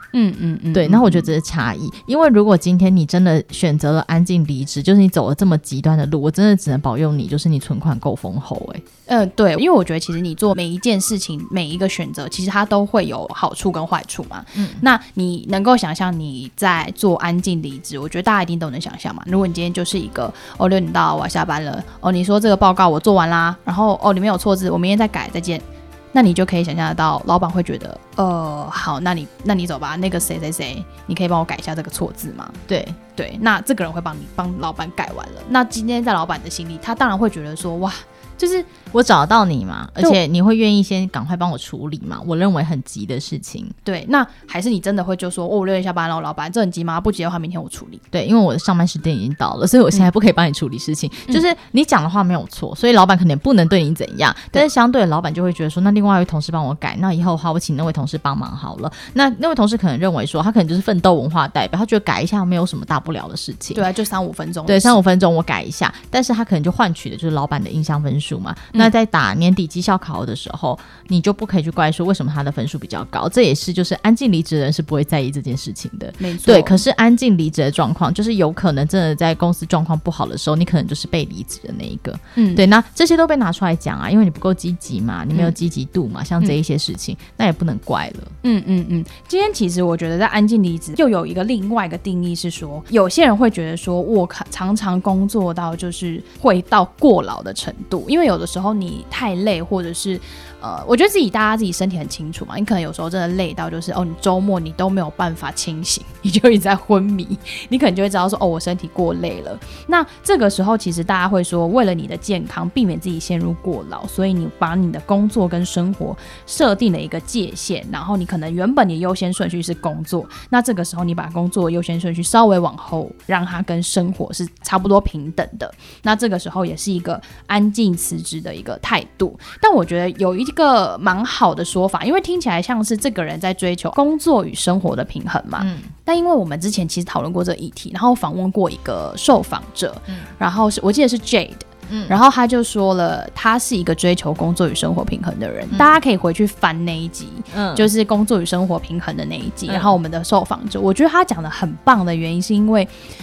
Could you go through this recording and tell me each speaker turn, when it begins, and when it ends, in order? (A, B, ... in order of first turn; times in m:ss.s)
0:00.1-0:01.3 A
0:00.7-0:08.8 B
0:09.1-0:32.6 A
0:14.6-0:14.8 B
0:32.7-0:33.0 B
0:33.2-0:38.7 A
0:38.9-0:43.7 B
0:43.8-0:48.0 A
0:48.1-1:03.8 B
1:03.7-1:05.0 A
1:04.7-1:28.3 B
1:16.2-1:16.8 A
1:22.4-1:22.6 A
1:28.4-2:32.9 A
2:15.6-2:15.9 B
2:21.9-2:22.2 B
2:27.5-2:27.9 B